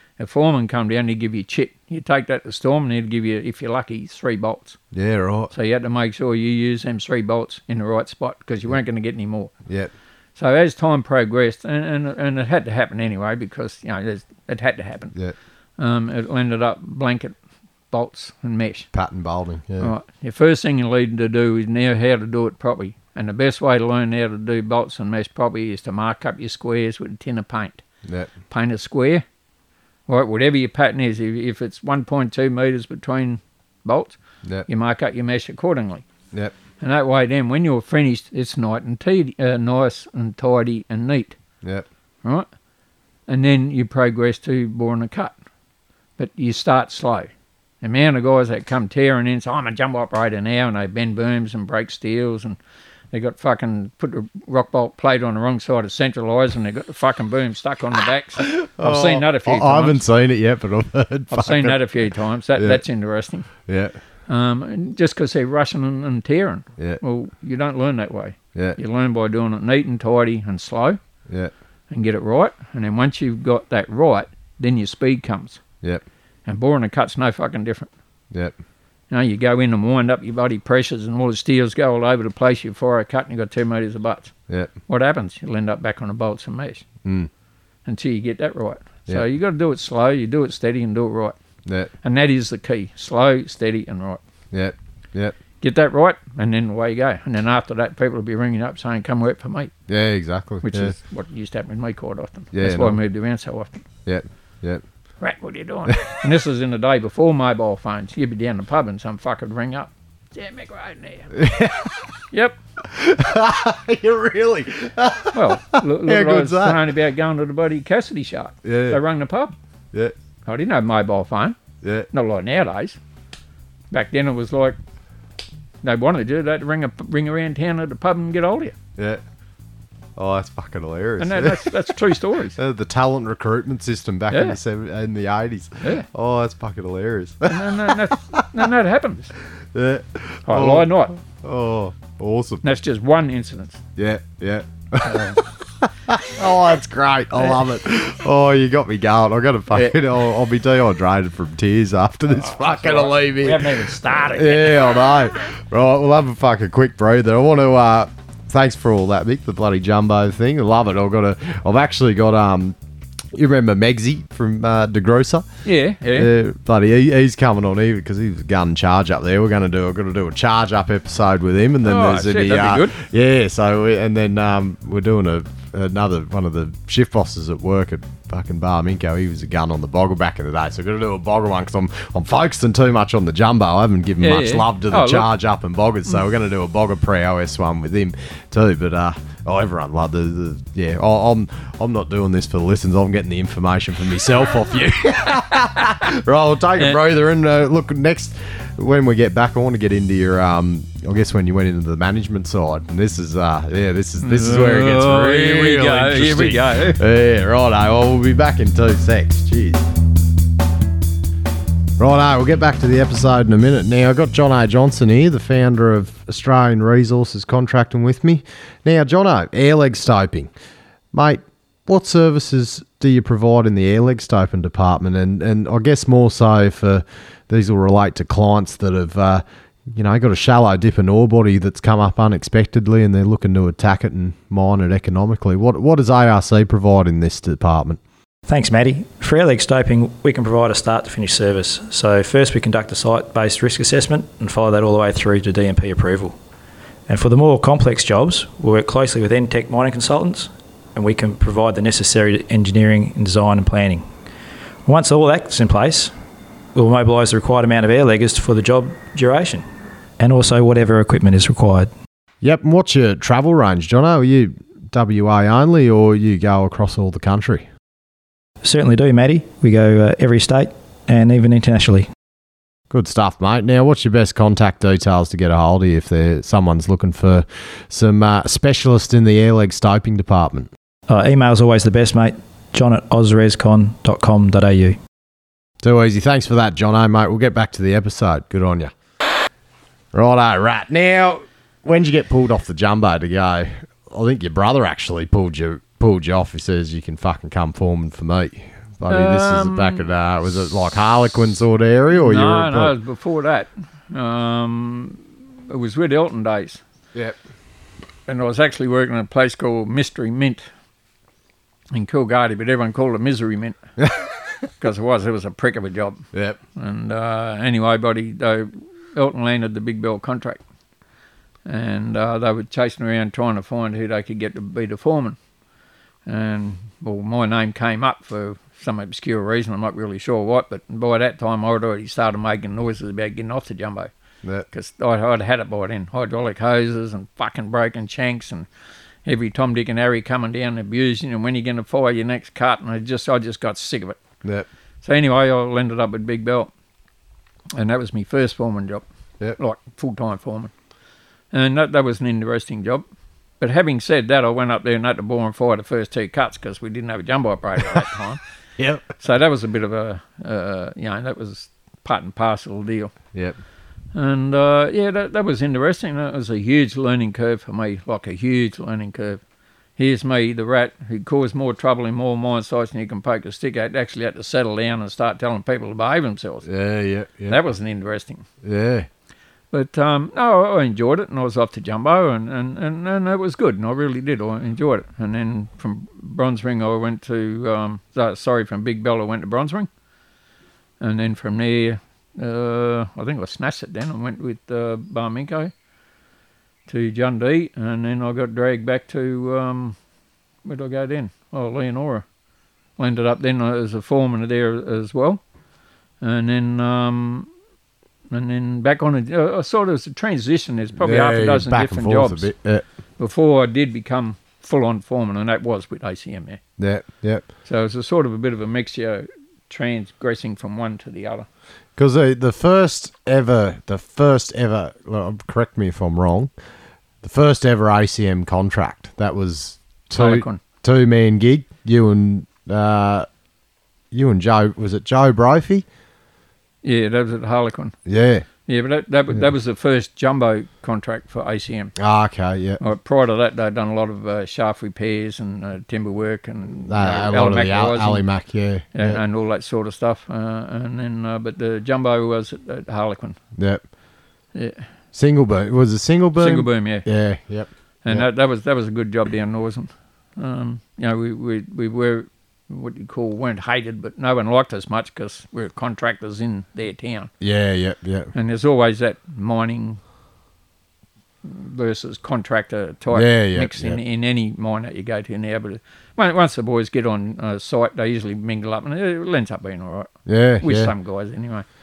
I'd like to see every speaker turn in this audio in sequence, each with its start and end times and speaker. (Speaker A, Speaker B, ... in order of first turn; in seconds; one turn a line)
Speaker A: 0.2-4.8
Speaker B: 4.9-5.5
Speaker A: 5.5-9.5
Speaker A: 10.3-15.1
Speaker A: 15.8-17.4
Speaker A: 17.9-18.9
Speaker B: 18.9-19.9
Speaker A: 19.8-27.8
Speaker B: 28.0-28.3
Speaker A: 28.5-29.2
Speaker A: 30.1-36.0
Speaker A: 36.8-41.4
Speaker A: 43.3-45.4
Speaker A: 46.2-52.6
Speaker A: 53.1-60.0
Speaker B: 58.4-61.8
Speaker A: 61.3-63.5
Speaker B: 62.5-62.8
Speaker B: 63.6-63.9
Speaker A: 64.3-71.0
Speaker A: 71.9-75.6
Speaker A: 76.5-77.9
Speaker A: 79.1-84.3
Speaker A: 84.9-86.8
Speaker B: 87.0-87.3
Speaker A: 87.8-91.4
Speaker B: 91.7-91.9
Speaker A: 92.0-94.2
Speaker B: 94.5-95.3
Speaker A: 95.6-99.7
Speaker B: 99.9-100.9
Speaker A: 100.6-103.8
Speaker B: 102.5-103.0
Speaker B: 104.0-104.8
Speaker A: 105.2-111.3
Speaker B: 111.3-112.0
Speaker A: 112.3-112.6
Speaker B: 112.8-116.8
Speaker A: 115.3-119.5
Speaker B: 118.6-119.0
Speaker A: 120.4-121.6
Speaker B: 121.8-122.1
Speaker A: 122.1-123.0
Speaker A: 123.9-124.8
Speaker A: 125.8-128.8
Speaker B: 130.2-131.9
Speaker A: 131.2-132.6
Speaker B: 132.5-138.5
Speaker A: 134.3-134.6
Speaker A: 137.4-139.3
Speaker B: 139.7-142.7
Speaker A: 140.5-141.1
Speaker A: 142.6-143.8
Speaker B: 143.9-162.8
Speaker A: 145.0-145.4
Speaker A: 149.7-149.9
Speaker A: 152.3-155.0
Speaker B: 163.3-165.5
Speaker A: 165.6-166.3
Speaker B: 166.1-209.8
Speaker A: 171.8-173.0
Speaker A: 184.2-185.3
Speaker A: 204.2-207.0
Speaker B: 212.0-220.5
Speaker B: 221.1-238.0
Speaker C: 238.5-246.4
Speaker C: 247.1-254.1
Speaker C: 254.8-256.1
Speaker C: 256.7-259.6
Speaker C: 260.2-261.9
Speaker B: 262.4-267.7
Speaker C: 268.6-272.1
Speaker B: 272.9-280.7
Speaker C: 281.1-285.0
Speaker B: 285.8-288.9
Speaker B: 290.1-302.9
Speaker A: 299.1-300.1
Speaker A: 302.1-306.8
Speaker A: 308.3-310.6
Speaker A: 311.9-313.8
Speaker A: 314.8-320.6
Speaker B: 316.3-316.6
Speaker A: 321.6-325.4
Speaker A: 326.2-334.1
Speaker A: 334.7-338.7
Speaker A: 339.2-344.2
Speaker A: 345.0-346.7
Speaker A: 347.7-349.0
Speaker A: 349.6-350.7
Speaker A: 351.5-353.0
Speaker A: 353.6-358.4
Speaker B: 358.8-359.1
Speaker A: 359.2-363.1
Speaker A: 364.1-369.4
Speaker A: 370.0-376.7
Speaker B: 376.6-377.6
Speaker A: 377.5-378.4
Speaker B: 378.6-379.1
Speaker A: 379.7-389.9
Speaker A: 391.0-395.7
Speaker A: 396.9-400.0
Speaker A: 400.6-402.2
Speaker A: 403.0-405.4
Speaker A: 406.2-407.5
Speaker A: 408.3-412.5
Speaker B: 411.0-412.8
Speaker A: 413.2-416.6
Speaker B: 416.8-417.5
Speaker A: 417.6-421.5
Speaker B: 421.9-426.5
Speaker B: 427.2-433.3
Speaker A: 430.1-430.6
Speaker B: 434.1-435.9
Speaker A: 436.8-437.9
Speaker B: 438.1-438.4
Speaker A: 438.6-441.9
Speaker B: 442.0-442.8
Speaker A: 442.8-448.2
Speaker B: 446.9-449.2
Speaker A: 448.9-453.4
Speaker B: 453.6-453.8
Speaker A: 454.5-454.8
Speaker B: 455.1-458.2
Speaker A: 456.4-457.1
Speaker A: 458.0-467.3
Speaker B: 467.4-468.3
Speaker A: 468.3-470.0
Speaker A: 471.4-481.6
Speaker B: 473.1-474.0
Speaker B: 480.3-480.9